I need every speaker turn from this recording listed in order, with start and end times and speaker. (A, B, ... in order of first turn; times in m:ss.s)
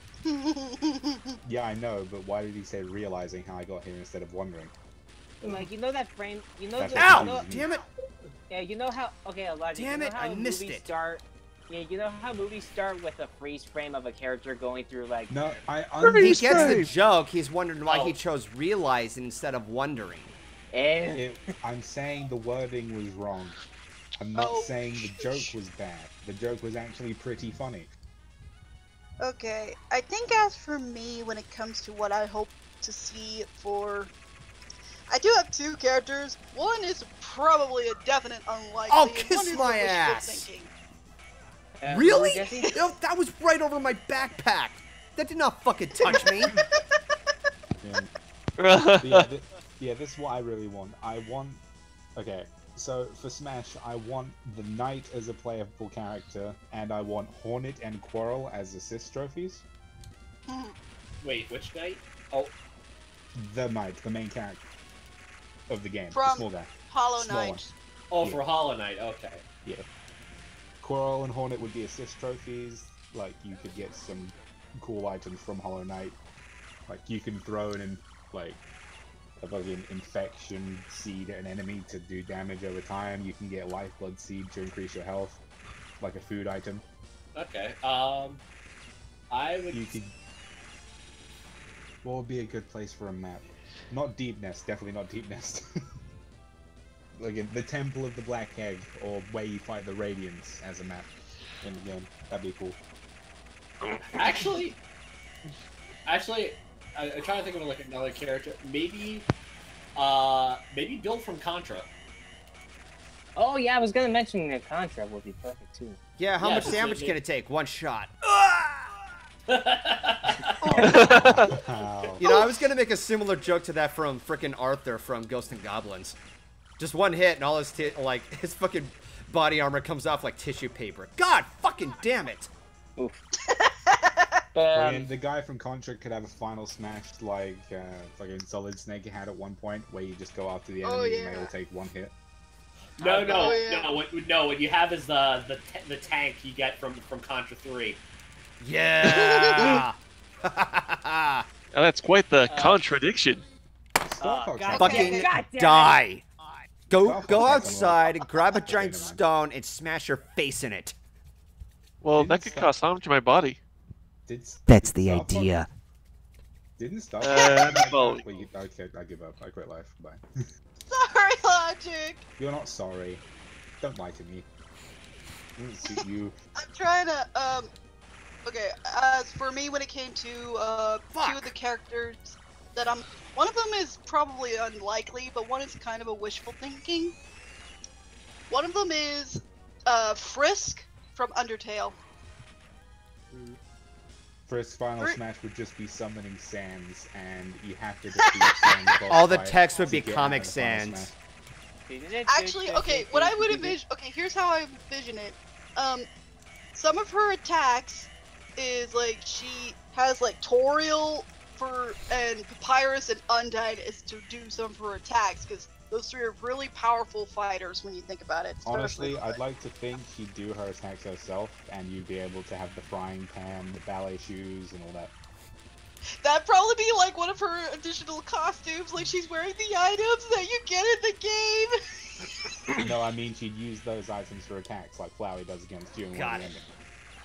0:00.2-0:01.4 A
0:01.4-0:04.7 B
0:05.4-0:07.5 C
0:06.8-0:07.8 B
0:06.9-0:07.9 D
0:08.5-0:15.4 C
0:09.7-0:10.8 D
0:15.3-0:16.9 B
0:16.0-0:16.9 E
0:16.2-0:20.3 D
0:17.9-0:18.1 F
0:20.7-0:21.2 C
0:21.1-0:23.6 B
0:24.2-0:27.9 B
0:24.4-0:25.5 A
0:29.2-0:34.1 A
0:35.1-0:40.7 A
0:38.9-0:40.5 D
0:41.8-0:42.7 C
0:41.9-0:46.6 D
0:45.9-0:46.8 A
0:47.8-0:48.1 B
0:48.6-0:49.3 E
0:49.0-0:51.6 B
0:52.2-0:59.6 B
1:00.5-1:00.7 A
1:01.2-1:02.5 F
1:03.4-1:04.6 B
1:05.7-1:07.6 B
1:06.1-1:07.7 A
1:08.1-1:09.4 F
1:10.8-1:16.2 B
1:16.9-1:18.6 B
1:19.4-1:25.4 B
1:26.0-1:26.8 B
1:27.4-1:28.4 F
1:29.3-1:30.0 F
1:29.7-1:30.1 B
1:32.0-1:35.6 B
1:37.2-1:42.8 B
1:43.8-1:44.4 E
1:44.1-1:44.8 F
1:46.0-1:49.3 F
1:50.0-1:51.9 F
1:53.4-1:56.0 C
1:56.2-1:58.8 D
1:56.4-1:57.2 F
1:59.5-2:00.8 F
2:00.6-2:00.9 A
2:00.6-2:02.2 B
2:00.8-2:01.5 E
2:02.2-2:06.2 D
2:02.2-2:02.5 A
2:06.8-2:12.5 D
2:13.5-2:14.4 A
2:14.5-2:15.1 C
2:14.7-2:22.1 B
2:20.8-2:21.5 A
2:23.0-2:28.0 F
2:23.0-2:23.6 D
2:23.2-2:23.9 A
2:28.6-2:31.5 D
2:29.0-2:29.8 E
2:29.3-2:29.6 A
2:31.7-2:33.4 E
2:32.5-2:32.8 C
2:34.0-2:35.2 B
2:34.2-2:36.0 C
2:34.7-2:35.3 A
2:34.8-2:36.2 D
2:36.9-2:40.9 D
2:36.9-2:38.0 B
2:38.6-2:39.2 B
2:42.0-2:43.6 E
2:42.1-2:42.7 B
2:44.3-2:45.6 B
2:44.7-2:45.7 D
2:46.8-2:50.2 B
2:47.2-2:48.2 E
2:50.8-2:52.2 A
2:52.4-2:53.2 B
2:53.8-2:54.5 B
2:55.6-2:56.3 B
2:56.6-2:57.7 A
2:58.4-3:07.1 A
3:01.1-3:01.5 D
3:08.5-3:12.0 A
3:14.5-3:21.1 B
3:18.2-3:18.6 A
3:19.1-3:21.1 D
3:21.9-3:23.8 C
3:22.3-3:26.1 A
3:26.8-3:39.4 A
3:38.6-3:45.1 B
3:46.2-3:52.2 A
3:52.8-3:56.7 B
3:56.1-3:56.6 D